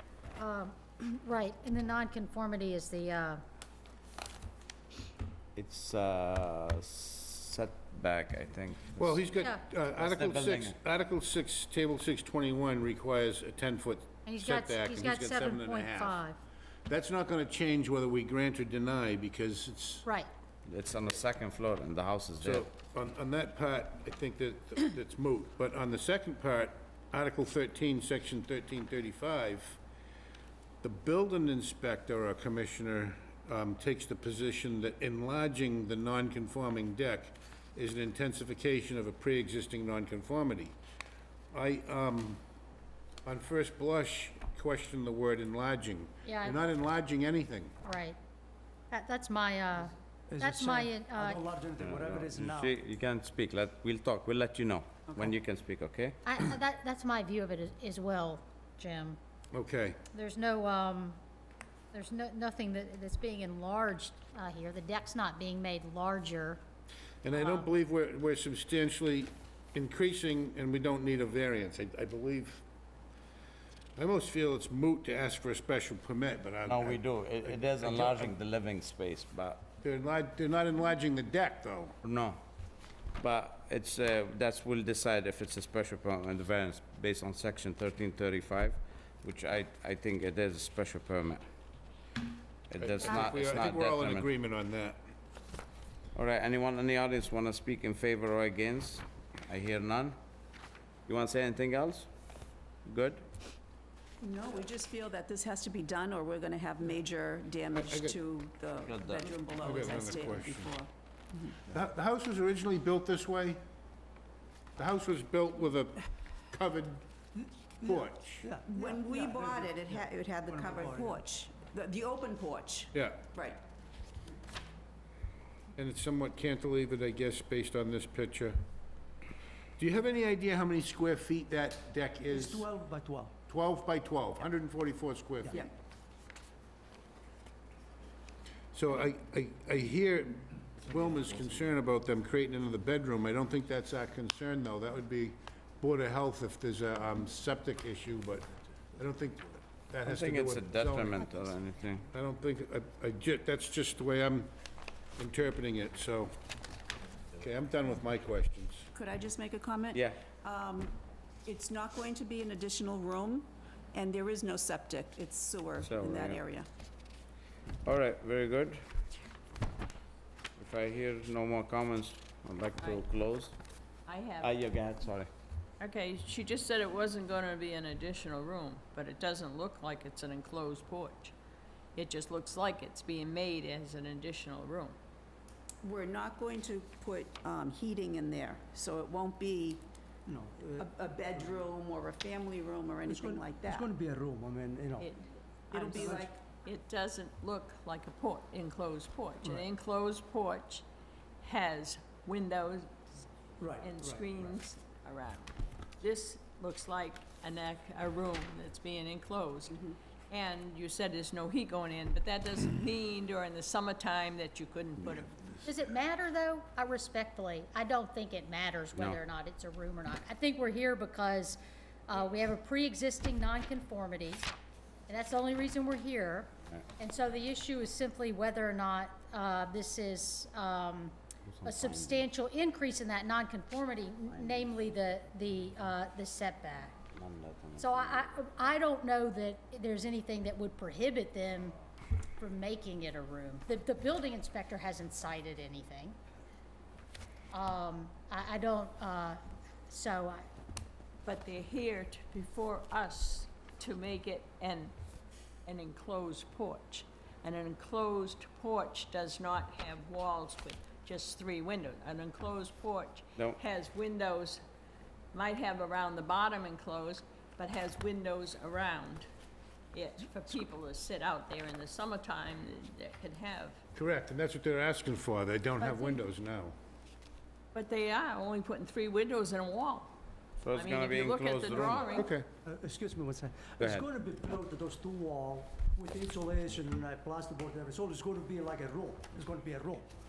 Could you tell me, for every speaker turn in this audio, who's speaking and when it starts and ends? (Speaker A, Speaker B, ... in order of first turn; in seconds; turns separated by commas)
Speaker A: 0.4-3.4, Speaker B: 5.5-9.2, Speaker C: 9.0-16.2, Speaker B: 10.0-10.8, Speaker A: 14.3-16.4, Speaker C: 16.9-20.1, Speaker A: 20.1-20.3, Speaker B: 20.7-22.7, Speaker C: 22.4-29.8, Speaker C: 30.8-40.8, Speaker C: 41.5-42.4, Speaker C: 43.2-47.8, Speaker A: 46.2-46.6, Speaker A: 47.8-48.2, Speaker A: 48.9-51.4, Speaker D: 50.3-52.8, Speaker B: 51.8-56.2, Speaker A: 56.2-59.2, Speaker C: 59.5-60.0, Speaker A: 60.1-61.2, Speaker A: 61.9-66.6, Speaker C: 67.2-72.7, Speaker A: 67.4-67.7, Speaker C: 74.0-78.3, Speaker B: 76.7-79.7, Speaker C: 79.8-81.9, Speaker B: 82.0-82.4, Speaker B: 83.2-91.4, Speaker B: 92.7-94.3, Speaker C: 92.8-95.0, Speaker B: 96.2-100.2, Speaker B: 101.1-102.1, Speaker B: 102.9-103.2, Speaker E: 104.2-111.5, Speaker C: 107.8-108.2, Speaker B: 108.8-109.3, Speaker C: 109.6-110.7, Speaker C: 111.7-113.6, Speaker C: 114.8-117.0, Speaker D: 117.8-121.2, Speaker C: 117.8-118.5, Speaker E: 118.7-123.6, Speaker C: 122.9-123.3, Speaker C: 125.8-128.6, Speaker C: 129.8-132.7, Speaker D: 132.3-133.3, Speaker C: 133.5-135.7, Speaker C: 138.7-151.4, Speaker B: 150.1-152.1, Speaker C: 152.1-154.5, Speaker C: 155.2-156.3, Speaker C: 157.4-158.9, Speaker E: 158.9-166.7, Speaker B: 159.9-160.2, Speaker B: 165.8-166.4, Speaker B: 167.8-168.8, Speaker B: 170.6-173.6, Speaker F: 174.1-174.6, Speaker B: 174.4-175.3, Speaker F: 175.8-181.3, Speaker F: 181.9-185.0, Speaker E: 185.8-189.8, Speaker D: 190.3-191.7, Speaker E: 190.8-193.9, Speaker D: 193.1-195.1, Speaker F: 195.0-200.8, Speaker D: 195.7-196.3, Speaker E: 195.7-196.3, Speaker F: 201.4-202.9, Speaker D: 203.6-204.5, Speaker F: 203.8-215.5, Speaker A: 215.7-224.5, Speaker A: 225.1-237.0, Speaker B: 231.5-232.2, Speaker B: 234.3-234.9, Speaker B: 237.1-238.3, Speaker A: 237.8-241.8, Speaker A: 242.4-246.2, Speaker A: 247.5-250.4, Speaker F: 251.2-254.9, Speaker F: 255.7-264.6, Speaker F: 265.3-269.3, Speaker F: 269.9-273.8, Speaker C: 273.9-276.8, Speaker A: 275.8-276.2, Speaker F: 277.7-280.1, Speaker B: 280.6-282.1, Speaker F: 280.7-282.3, Speaker C: 281.9-282.5, Speaker D: 282.6-290.1, Speaker B: 283.8-284.1